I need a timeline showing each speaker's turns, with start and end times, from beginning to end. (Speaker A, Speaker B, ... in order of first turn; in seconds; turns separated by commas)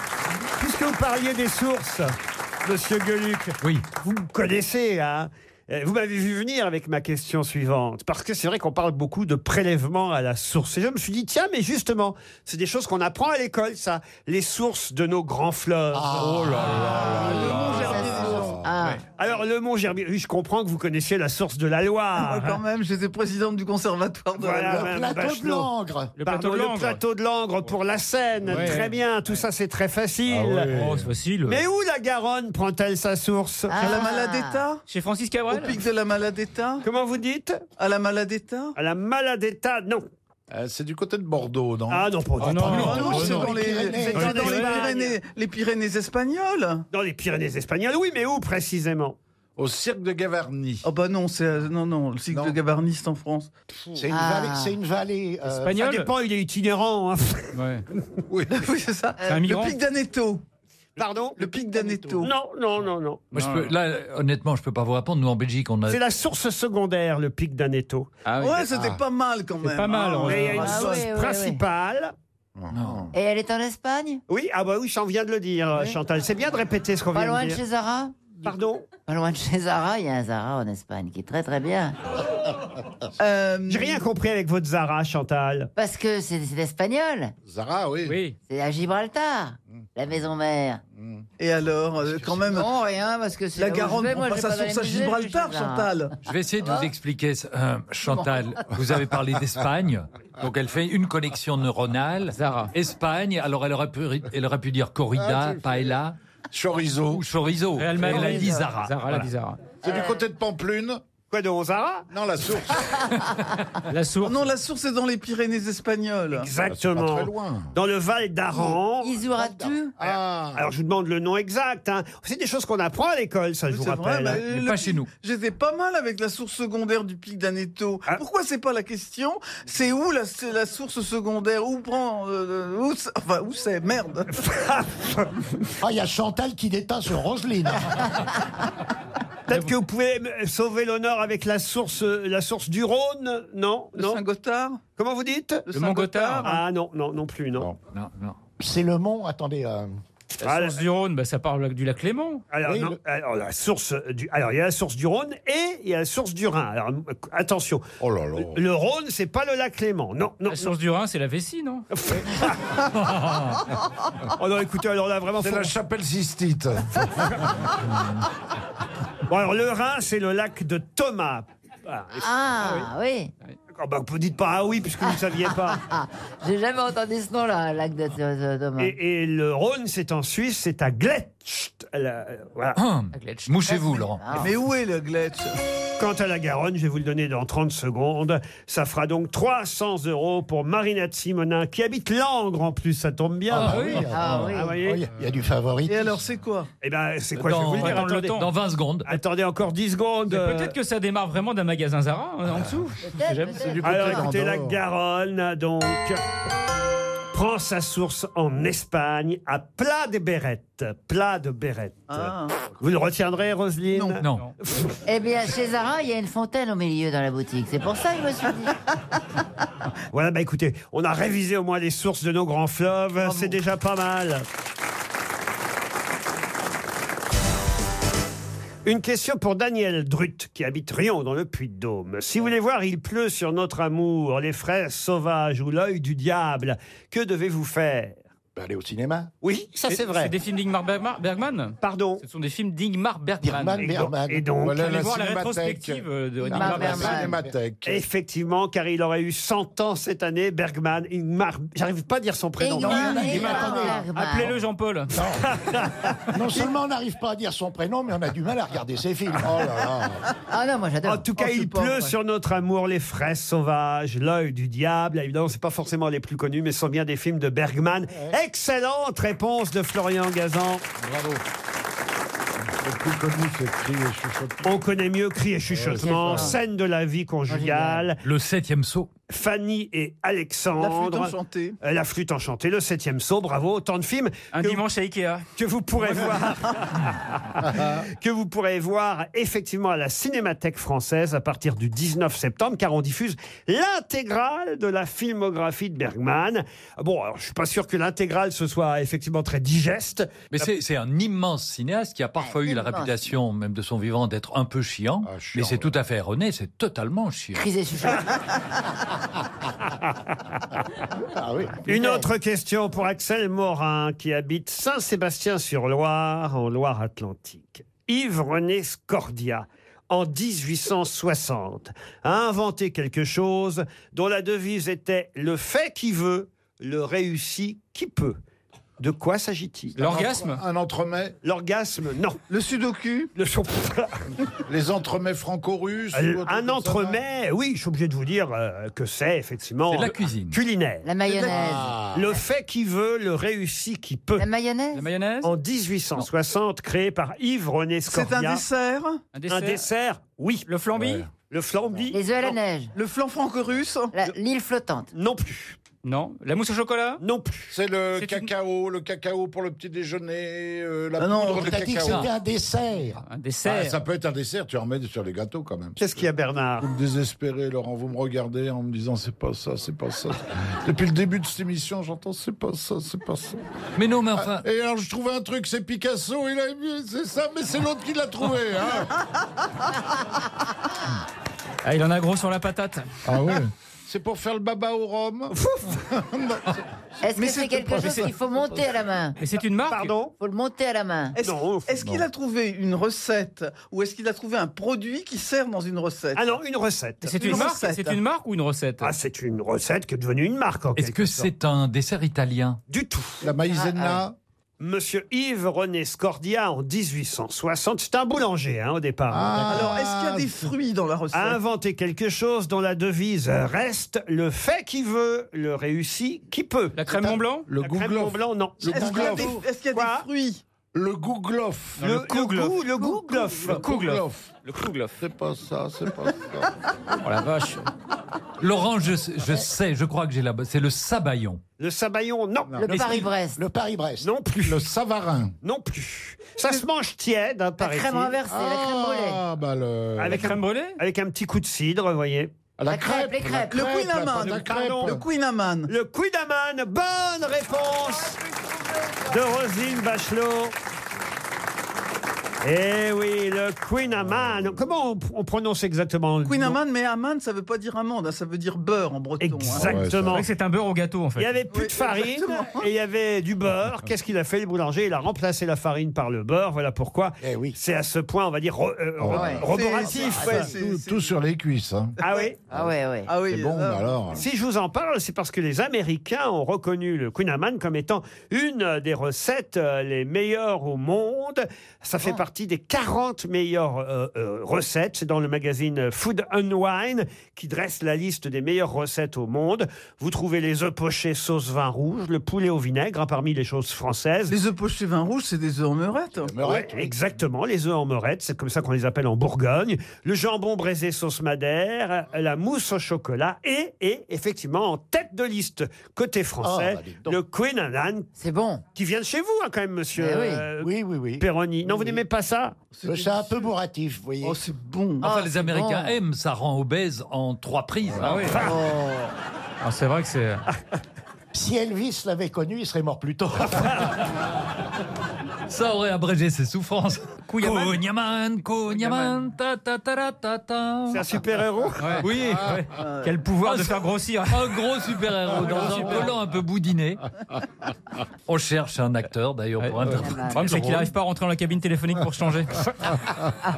Speaker A: 0.6-16.5, Speaker B: 15.9-17.6, Speaker C: 16.1-18.8, Speaker D: 16.8-18.6, Speaker E: 16.9-19.0, Speaker A: 19.1-22.6, Speaker D: 22.2-24.9, Speaker A: 24.3-25.7, Speaker B: 24.7-26.1, Speaker F: 26.2-27.0, Speaker A: 26.2-30.7, Speaker F: 28.5-29.0, Speaker C: 30.2-31.1, Speaker F: 30.7-31.6, Speaker A: 31.5-33.8, Speaker E: 33.7-34.6, Speaker D: 33.8-34.8, Speaker F: 34.9-35.8, Speaker D: 35.5-36.8, Speaker A: 36.8-37.6, Speaker D: 37.8-38.8, Speaker A: 38.8-40.0, Speaker C: 40.5-42.7, Speaker A: 41.9-45.2, Speaker F: 42.4-44.9, Speaker D: 42.7-46.8, Speaker B: 42.7-44.4, Speaker A: 46.9-49.2, Speaker C: 49.6-50.8, Speaker D: 50.8-53.5, Speaker C: 52.3-52.6, Speaker B: 53.9-55.7, Speaker E: 54.1-54.7, Speaker F: 55.5-56.1, Speaker A: 55.8-57.5, Speaker F: 57.5-57.8, Speaker C: 58.3-58.6, Speaker D: 58.5-60.4, Speaker E: 59.2-59.5, Speaker F: 59.2-59.8, Speaker A: 61.0-63.2, Speaker D: 61.4-62.3, Speaker F: 63.3-63.7, Speaker G: 63.3-66.0, Speaker A: 65.9-68.1, Speaker F: 68.2-68.7, Speaker D: 68.4-71.1, Speaker C: 68.7-69.0, Speaker F: 69.6-70.9, Speaker A: 70.2-72.1, Speaker E: 70.6-71.6, Speaker C: 72.5-73.1, Speaker G: 72.7-73.1, Speaker E: 73.1-74.2, Speaker A: 74.3-77.6, Speaker E: 77.1-78.1, Speaker A: 78.4-78.8, Speaker E: 79.0-82.0, Speaker D: 83.2-84.0, Speaker A: 83.7-85.7, Speaker E: 85.8-87.3, Speaker C: 87.5-88.2, Speaker F: 88.0-88.4, Speaker E: 88.5-90.8, Speaker C: 91.0-91.2, Speaker D: 91.4-92.7, Speaker E: 92.4-95.9, Speaker D: 93.5-96.1, Speaker G: 96.2-106.2, Speaker F: 102.3-102.7, Speaker C: 105.2-105.9, Speaker C: 106.5-107.2, Speaker G: 107.1-109.3, Speaker F: 107.8-109.8, Speaker C: 109.8-111.0, Speaker A: 111.3-112.0, Speaker C: 112.1-113.1, Speaker F: 113.9-114.5, Speaker D: 114.2-116.5, Speaker A: 116.3-119.1, Speaker C: 116.7-117.7, Speaker E: 118.5-120.0, Speaker B: 119.3-119.7, Speaker C: 120.0-120.7, Speaker A: 120.0-124.4, Speaker D: 123.7-134.4, Speaker G: 124.4-125.1, Speaker A: 134.3-135.4, Speaker B: 135.8-138.0, Speaker A: 139.5-144.2, Speaker F: 139.5-139.7, Speaker D: 143.9-144.8, Speaker A: 145.0-145.6, Speaker D: 145.7-146.5, Speaker F: 145.7-146.6, Speaker A: 146.4-147.7, Speaker G: 147.9-148.3, Speaker B: 148.6-150.0, Speaker F: 150.4-152.4, Speaker A: 150.4-150.8, Speaker A: 152.5-157.8, Speaker B: 152.7-152.9, Speaker C: 158.0-158.6, Speaker A: 158.4-160.7, Speaker F: 160.4-161.8, Speaker A: 161.9-162.6, Speaker G: 162.9-163.6, Speaker A: 164.4-165.7, Speaker C: 165.4-167.7, Speaker A: 169.3-172.8, Speaker E: 172.2-173.3, Speaker A: 173.7-175.8, Speaker E: 175.7-178.9, Speaker A: 178.8-182.8, Speaker G: 182.8-184.3, Speaker F: 183.1-183.6, Speaker E: 183.7-184.5, Speaker D: 184.3-185.6, Speaker A: 186.0-195.0, Speaker B: 193.5-196.2, Speaker F: 193.6-194.1, Speaker E: 194.1-194.7, Speaker D: 195.8-196.7, Speaker A: 196.8-198.4, Speaker G: 197.4-199.2, Speaker F: 197.7-198.5, Speaker A: 199.1-200.7, Speaker F: 200.3-203.6, Speaker E: 203.0-204.3, Speaker C: 203.5-204.8, Speaker A: 203.8-206.2, Speaker A: 207.3-215.0, Speaker D: 212.1-212.6, Speaker D: 213.9-214.2, Speaker E: 215.1-218.7, Speaker A: 220.1-224.4, Speaker D: 223.2-223.6, Speaker A: 228.8-238.2, Speaker B: 238.6-239.3, Speaker A: 239.4-240.3, Speaker F: 239.9-244.1, Speaker A: 241.8-242.2, Speaker B: 243.4-244.4, Speaker A: 243.8-245.0, Speaker C: 244.6-248.0, Speaker F: 244.8-247.3, Speaker E: 246.5-247.3, Speaker B: 246.7-247.5, Speaker A: 247.8-253.9, Speaker E: 252.6-254.5, Speaker B: 252.8-254.1, Speaker F: 253.3-255.2, Speaker B: 255.1-255.4, Speaker A: 255.3-256.6, Speaker B: 256.3-259.6, Speaker C: 259.4-260.2, Speaker E: 260.5-261.3, Speaker A: 261.0-270.8, Speaker D: 261.4-262.1, Speaker C: 271.0-271.4, Speaker C: 272.7-274.8, Speaker A: 274.6-278.2, Speaker C: 275.7-276.6, Speaker E: 276.0-276.6, Speaker E: 277.5-278.1, Speaker G: 278.2-279.1, Speaker A: 279.3-284.8, Speaker D: 280.8-281.8, Speaker F: 284.5-285.5, Speaker A: 285.6-300.6, Speaker F: 286.0-286.3, Speaker C: 287.7-288.0, Speaker G: 300.5-307.6, Speaker E: 302.4-303.1, Speaker C: 305.2-305.9, Speaker E: 307.5-308.5, Speaker B: 311.4-311.9, Speaker A: 311.9-328.4, Speaker E: 311.9-312.2, Speaker A: 329.0-330.0, Speaker F: 329.9-330.6, Speaker C: 330.0-331.3, Speaker A: 331.4-332.4, Speaker D: 332.5-333.3, Speaker A: 333.3-334.2, Speaker C: 334.7-337.2, Speaker A: 336.1-341.1, Speaker G: 339.9-340.6, Speaker E: 341.0-341.9, Speaker D: 341.2-341.8, Speaker C: 341.5-342.4, Speaker A: 342.1-344.4, Speaker E: 344.4-345.1, Speaker F: 344.9-345.5, Speaker A: 345.4-348.6, Speaker D: 348.1-349.2, Speaker F: 349.3-349.9, Speaker A: 349.5-350.7, Speaker F: 350.7-351.2, Speaker C: 350.9-351.3, Speaker A: 351.5-352.6, Speaker E: 352.1-352.9, Speaker D: 352.9-354.1, Speaker E: 354.1-355.1, Speaker A: 355.1-355.8, Speaker F: 356.0-357.2, Speaker A: 357.2-357.7, Speaker C: 357.7-362.3, Speaker F: 358.1-358.5, Speaker D: 361.2-361.8, Speaker B: 361.4-363.2, Speaker G: 362.0-362.3, Speaker F: 363.3-364.0, Speaker C: 363.6-366.2, Speaker A: 366.0-366.9, Speaker C: 366.8-373.6, Speaker G: 374.0-374.6, Speaker C: 374.4-379.2, Speaker F: 381.8-383.1, Speaker C: 383.2-386.8, Speaker A: 385.5-386.0, Speaker E: 387.2-389.4, Speaker D: 387.3-388.2, Speaker F: 388.0-388.3, Speaker F: 389.4-390.1, Speaker A: 389.9-390.3, Speaker E: 390.4-391.4, Speaker D: 391.3-396.6, Speaker A: 391.4-391.9, Speaker A: 396.3-397.4, Speaker F: 397.3-399.1, Speaker D: 397.3-398.2, Speaker A: 399.0-401.4, Speaker G: 400.9-402.8, Speaker A: 402.9-403.5, Speaker C: 403.4-404.4, Speaker E: 403.7-404.2, Speaker A: 404.8-409.7, Speaker C: 409.3-410.7, Speaker B: 409.4-409.9, Speaker D: 409.6-411.6, Speaker A: 411.3-417.0, Speaker F: 416.9-417.7, Speaker C: 417.7-419.6, Speaker A: 417.8-420.2, Speaker B: 418.9-419.6, Speaker D: 418.9-420.6, Speaker C: 420.9-422.0, Speaker F: 422.0-423.1, Speaker A: 422.0-423.8, Speaker C: 423.1-424.6, Speaker F: 423.6-425.2, Speaker C: 425.2-426.7, Speaker F: 427.2-427.9, Speaker G: 428.6-431.6, Speaker A: 431.8-432.8, Speaker C: 432.7-433.2, Speaker E: 432.8-433.6, Speaker B: 432.9-434.3, Speaker A: 434.2-434.8, Speaker C: 434.6-435.5, Speaker A: 435.6-438.4, Speaker E: 437.8-439.4, Speaker C: 438.5-440.6, Speaker A: 440.2-442.5, Speaker F: 440.3-441.0, Speaker C: 442.8-445.2, Speaker E: 442.9-443.9, Speaker D: 443.7-445.9, Speaker A: 444.6-445.1, Speaker A: 445.9-448.4, Speaker A: 449.3-450.7, Speaker A: 452.6-456.8, Speaker D: 456.4-459.9, Speaker A: 459.4-460.4, Speaker C: 459.8-460.4, Speaker F: 460.3-461.6, Speaker A: 461.4-470.7, Speaker D: 461.7-462.9, Speaker B: 467.4-467.8, Speaker C: 469.2-469.7, Speaker E: 469.3-470.8, Speaker D: 469.6-471.3, Speaker C: 470.5-472.2, Speaker D: 472.2-472.5, Speaker A: 472.2-472.6, Speaker E: 472.7-473.4, Speaker D: 473.2-474.2, Speaker C: 473.4-474.4, Speaker A: 474.3-494.5, Speaker D: 494.5-496.5, Speaker C: 496.4-497.1, Speaker A: 496.6-508.3, Speaker B: 506.6-507.4, Speaker E: 508.4-508.8, Speaker A: 508.9-512.8, Speaker E: 510.1-510.7, Speaker B: 510.8-511.4, Speaker D: 511.9-512.2, Speaker D: 512.9-513.7, Speaker B: 513.0-514.6, Speaker D: 514.4-515.3, Speaker E: 515.2-516.2, Speaker G: 515.2-518.5, Speaker F: 518.2-518.7, Speaker A: 518.5-518.8, Speaker D: 518.6-519.3, Speaker F: 519.8-520.6, Speaker B: 521.5-524.0, Speaker G: 525.7-531.3, Speaker F: 527.5-528.0, Speaker F: 528.9-529.4, Speaker A: 531.1-532.2, Speaker F: 532.0-534.8, Speaker G: 532.2-532.8, Speaker D: 533.0-533.4, Speaker G: 533.6-537.2, Speaker F: 535.5-536.4, Speaker G: 538.5-541.0, Speaker F: 539.8-542.9, Speaker E: 540.1-540.8